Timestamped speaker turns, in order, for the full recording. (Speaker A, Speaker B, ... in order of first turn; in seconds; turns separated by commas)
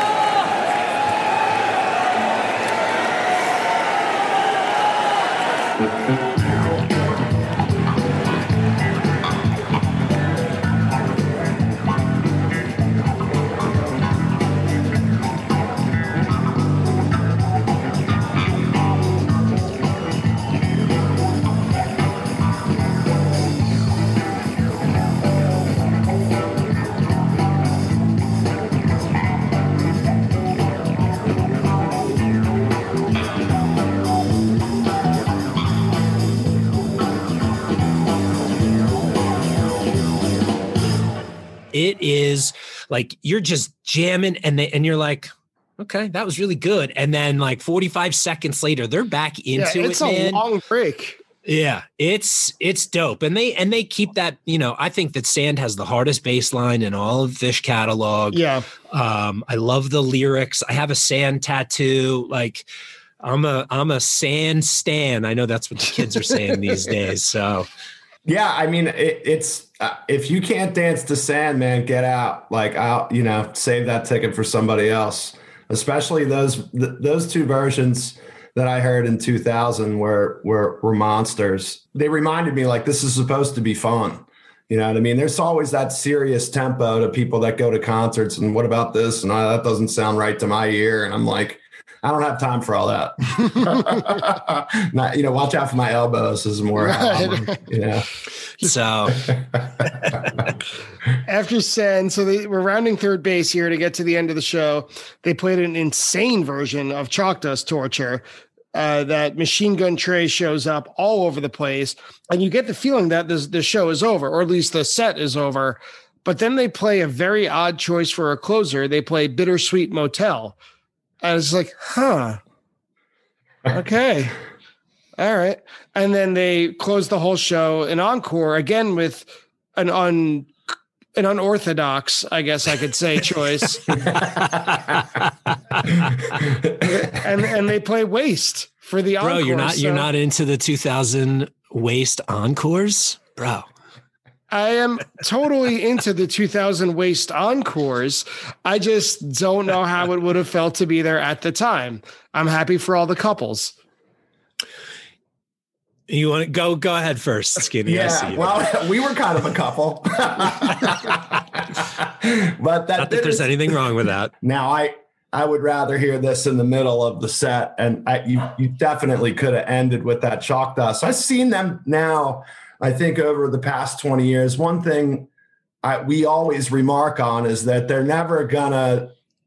Speaker A: 41.7-50.4, Speaker B: 49.6-51.2, Speaker A: 51.5-58.4, Speaker B: 58.3-58.6, Speaker A: 58.9-62.7, Speaker A: 63.2-67.7, Speaker C: 68.3-98.1, Speaker B: 96.8-97.7, Speaker A: 98.6-99.3, Speaker C: 99.1-99.9, Speaker B: 101.2-120.6, Speaker B: 121.2-122.4, Speaker B: 123.7-124.3, Speaker B: 125.2-130.5, Speaker B: 131.2-133.9, Speaker A: 134.2-136.3, Speaker C: 136.4-136.9, Speaker B: 136.8-140.1, Speaker A: 139.2-143.7, Speaker B: 144.5-153.8, Speaker A: 156.1-158.7, Speaker C: 157.9-163.7, Speaker A: 163.0-164.3, Speaker C: 164.4-175.3, Speaker C: 175.8-179.2